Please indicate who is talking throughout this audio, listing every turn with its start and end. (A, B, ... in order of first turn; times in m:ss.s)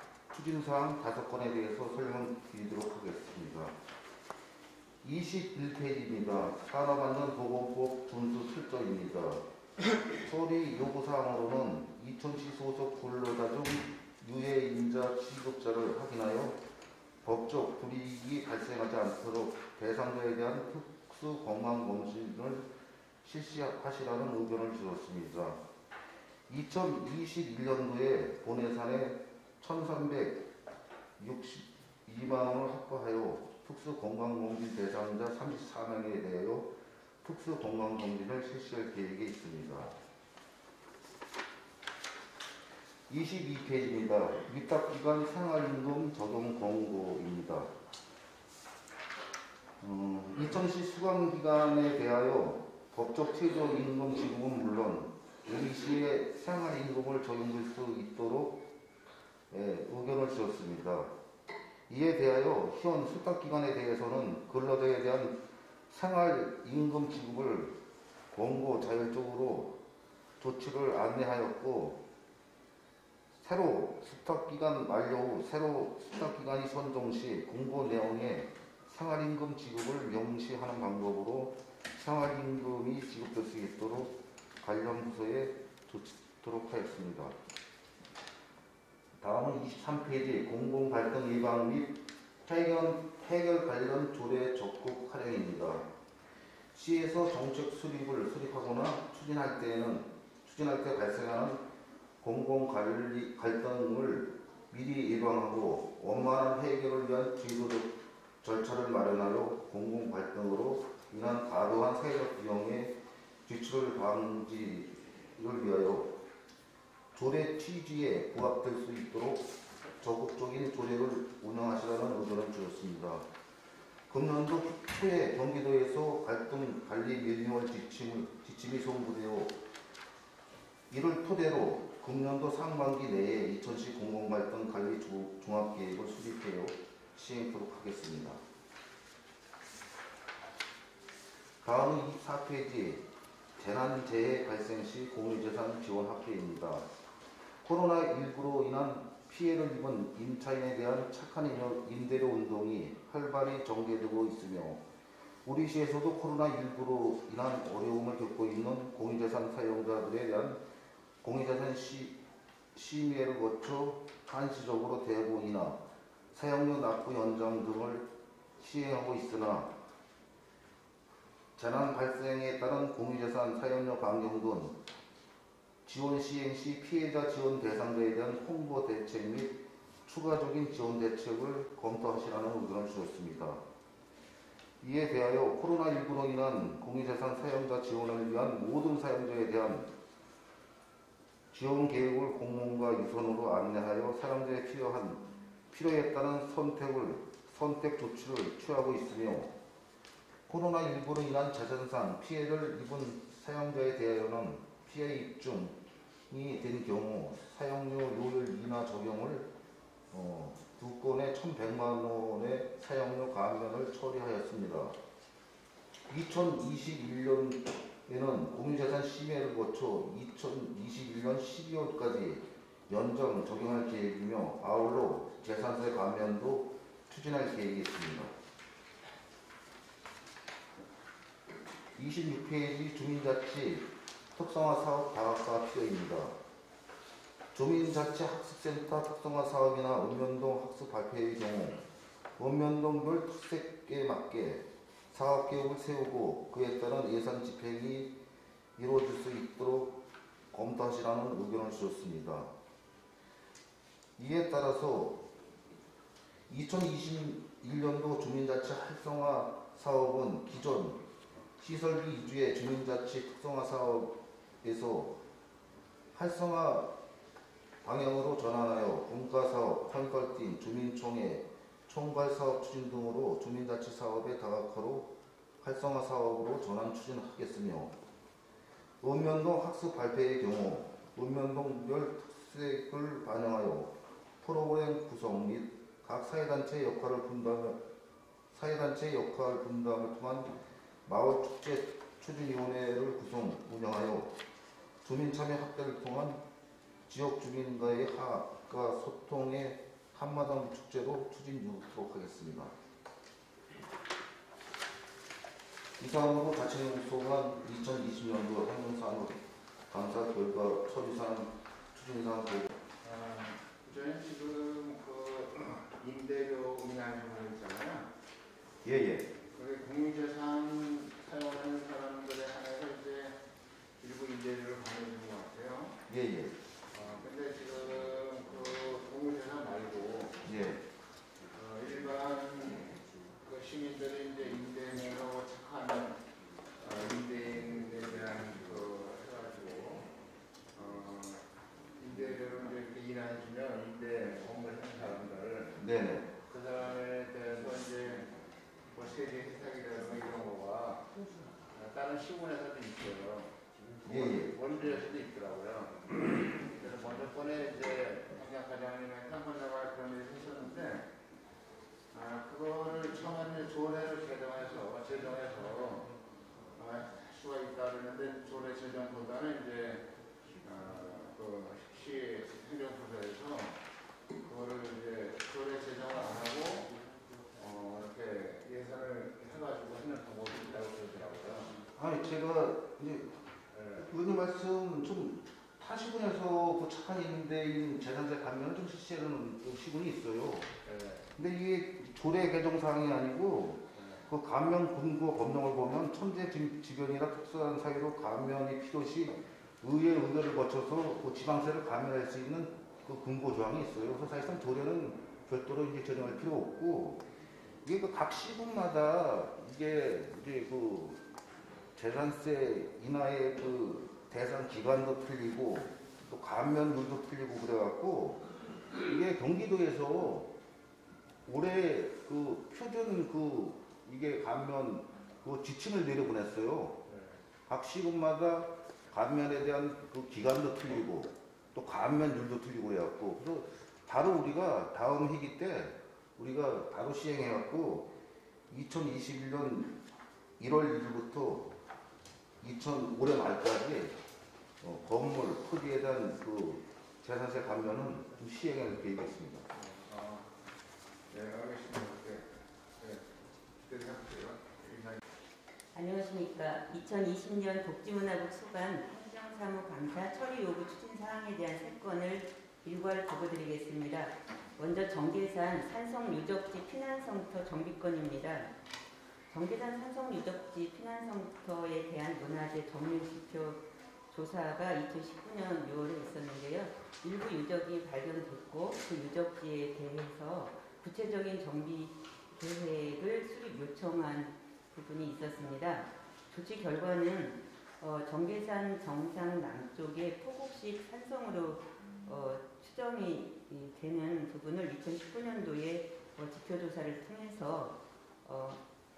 0:00.3-0:03.8 A
0:05.0-0:09.4 A
0:10.2-0:16.6 A
0:17.2-0:22.7 A
0:23.2-0:25.6 A
0:26.5-0:30.4 A
0:31.2-0:40.0 A
0:43.1-0:47.7 A
0:49.8-0:58.6 A
0:59.5-1:01.1 A
1:01.9-1:07.8 A
1:08.3-1:09.8 A
1:10.4-1:12.0 A
1:13.3-1:27.4 A
1:29.2-1:35.9 A
1:36.7-1:41.6 A
1:42.2-1:56.2 A
1:57.1-2:03.2 A
2:04.1-2:09.6 A
2:10.9-2:18.4 A
2:21.6-2:26.9 A
2:27.6-2:34.8 A
2:35.4-2:40.6 A
2:41.2-2:42.2 A
2:42.7-2:45.8 A
2:46.3-2:49.7 A
2:51.6-2:54.8 A
2:55.8-3:03.6 A
3:04.8-3:09.9 A
3:11.5-3:19.5 A
3:20.5-3:25.8 A
3:26.3-3:29.5 A
3:30.1-3:35.0 A
3:36.1-3:48.4 A
3:52.0-3:56.4 A
3:57.5-4:01.8 A
4:02.4-4:08.2 A
4:08.8-4:10.0 A
4:10.5-4:12.5 A
4:14.2-4:15.3 A
4:16.5-4:21.0 A
4:21.6-4:25.2 A
4:26.1-4:26.9 A
4:27.8-4:38.0 A
4:39.0-4:47.8 A
4:48.5-4:50.5 A
4:51.0-4:54.3 A
4:55.0-4:56.4 A
4:57.1-5:02.7 A
5:06.0-5:12.8 A
5:13.0-5:18.1 B
5:18.8-5:19.3 A
5:19.5-5:23.4 B
5:24.0-5:26.0 B
5:26.1-5:26.6 A
5:26.9-5:30.5 B
5:30.4-5:30.8 A
5:31.5-5:36.2 B
5:36.8-5:40.1 B
5:40.7-5:45.8 B
5:45.8-5:46.3 A
5:46.4-5:48.3 B
5:48.9-5:51.1 B
5:51.7-6:01.1 B
5:54.1-5:54.5 A
6:02.1-6:06.1 B
6:06.8-6:10.1 B
6:10.6-6:13.8 B
6:14.4-6:17.0 B
6:17.6-6:21.8 B
6:21.9-6:23.4 A
6:23.7-6:24.1 B
6:24.0-6:30.7 A
6:30.8-6:31.2 B
6:31.3-6:47.2 A
6:47.8-6:51.2 A
6:51.9-6:58.4 A
6:59.0-7:00.5 A
7:01.5-7:07.0 A
7:07.7-7:18.1 A
7:18.7-7:20.0 A
7:20.6-7:21.7 A
7:22.6-7:24.2 A
7:24.8-7:29.7 A
7:29.7-7:30.5 B
7:31.3-7:33.3 B
7:33.8-7:35.2 B
7:35.9-7:48.7 C
7:49.5-8:18.8 C